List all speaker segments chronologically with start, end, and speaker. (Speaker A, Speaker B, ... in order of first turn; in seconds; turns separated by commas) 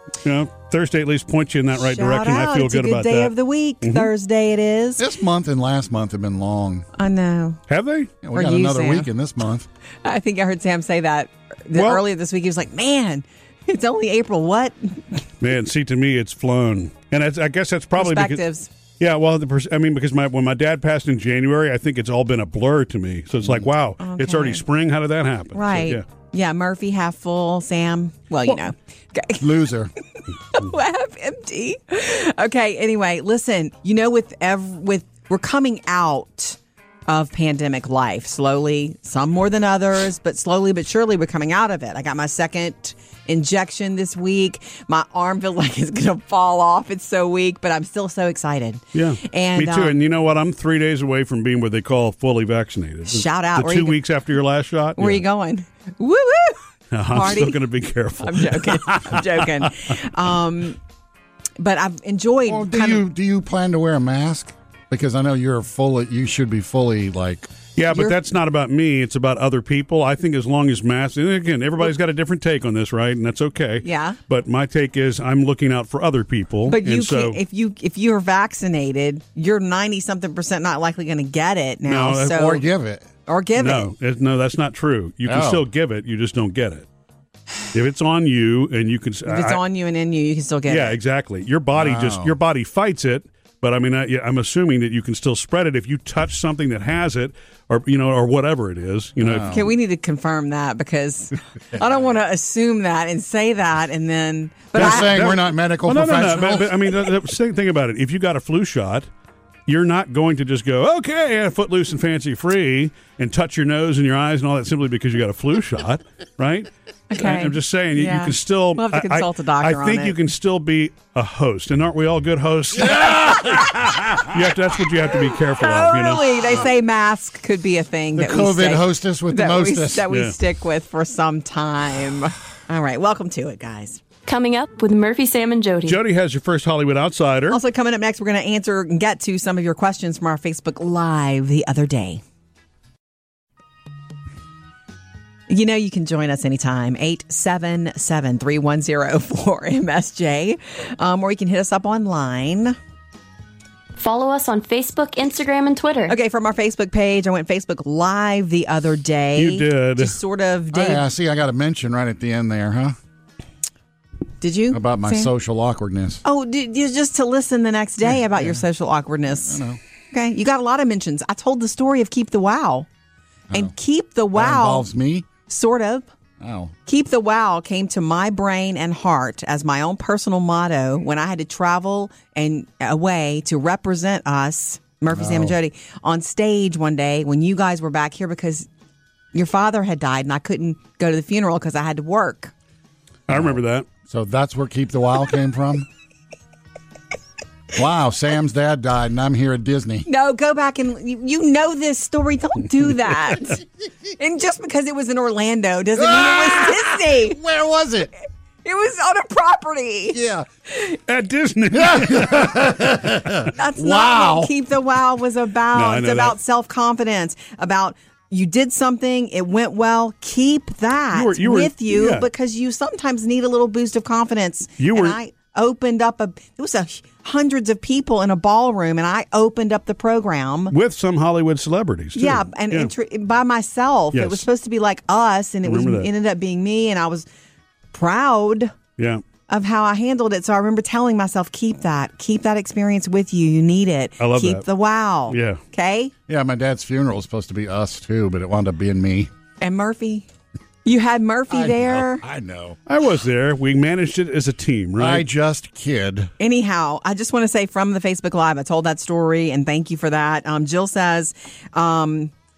Speaker A: 0.2-4.1, Speaker B: 1.8-5.0, Speaker C: 5.0-6.8, Speaker B: 7.0-7.6, Speaker A: 7.7-8.1, Speaker C: 8.2-9.7, Speaker B: 8.3-9.1, Speaker B: 10.0-15.2, Speaker A: 11.7-12.0, Speaker A: 15.4-18.4, Speaker B: 18.0-18.7, Speaker A: 19.0-26.0, Speaker B: 24.0-24.6, Speaker B: 25.5-29.5, Speaker C: 29.4-29.9, Speaker B: 30.5-50.0, Speaker A: 48.9-55.2, Speaker B: 53.1-54.0, Speaker B: 55.0-57.6, Speaker A: 56.9-59.4, Speaker B: 58.2-60.8, Speaker B: 61.6-63.0, Speaker C: 62.5-67.5, Speaker A: 67.8-77.4, Speaker B: 73.8-74.2, Speaker B: 76.7-82.6, Speaker A: 81.9-82.4, Speaker C: 82.3-83.1, Speaker B: 83.2-83.9, Speaker A: 83.6-86.9, Speaker C: 85.2-85.6, Speaker A: 87.7-89.6, Speaker B: 89.3-91.0, Speaker A: 90.7-99.5, Speaker C: 91.7-92.3, Speaker C: 99.2-99.7, Speaker B: 99.5-105.2, Speaker C: 104.7-107.0, Speaker A: 104.7-109.1, Speaker A: 109.7-126.2, Speaker B: 117.1-120.2, Speaker C: 122.8-124.2, Speaker B: 125.6-134.0, Speaker C: 128.2-130.1, Speaker A: 130.1-130.3, Speaker D: 134.2-136.0, Speaker A: 135.9-137.6, Speaker B: 137.5-142.2, Speaker B: 145.5-152.8, Speaker D: 154.0-156.2, Speaker B: 156.1-161.0, Speaker A: 159.4-160.2, Speaker C: 160.7-163.0, Speaker B: 164.4-165.3, Speaker C: 164.7-166.2, Speaker B: 166.2-169.6, Speaker C: 168.1-168.6, Speaker C: 169.4-169.8, Speaker B: 170.1-172.9, Speaker B: 173.5-174.9, Speaker C: 174.3-175.3, Speaker B: 175.5-176.1, Speaker C: 176.4-176.7, Speaker B: 176.9-188.7, Speaker C: 185.1-185.6, Speaker B: 189.3-192.5, Speaker A: 193.3-193.9, Speaker C: 193.3-195.9, Speaker C: 197.8-200.1, Speaker B: 200.1-203.6, Speaker B: 204.2-207.4, Speaker C: 206.0-208.1, Speaker B: 208.6-210.2, Speaker C: 210.1-210.5, Speaker A: 211.1-212.6, Speaker C: 211.7-214.5, Speaker B: 213.5-230.7, Speaker A: 215.7-216.4, Speaker A: 221.1-222.3, Speaker A: 224.8-225.2, Speaker A: 230.7-232.9, Speaker B: 232.2-237.2, Speaker A: 234.1-234.5, Speaker A: 235.7-236.1, Speaker B: 237.9-238.7, Speaker A: 239.0-239.2, Speaker B: 239.5-246.1, Speaker A: 244.2-244.6, Speaker A: 245.3-245.6, Speaker C: 246.3-249.3, Speaker B: 249.6-250.3, Speaker B: 250.8-252.2, Speaker C: 251.5-252.8, Speaker A: 252.9-255.3, Speaker C: 255.0-256.3, Speaker B: 256.4-262.3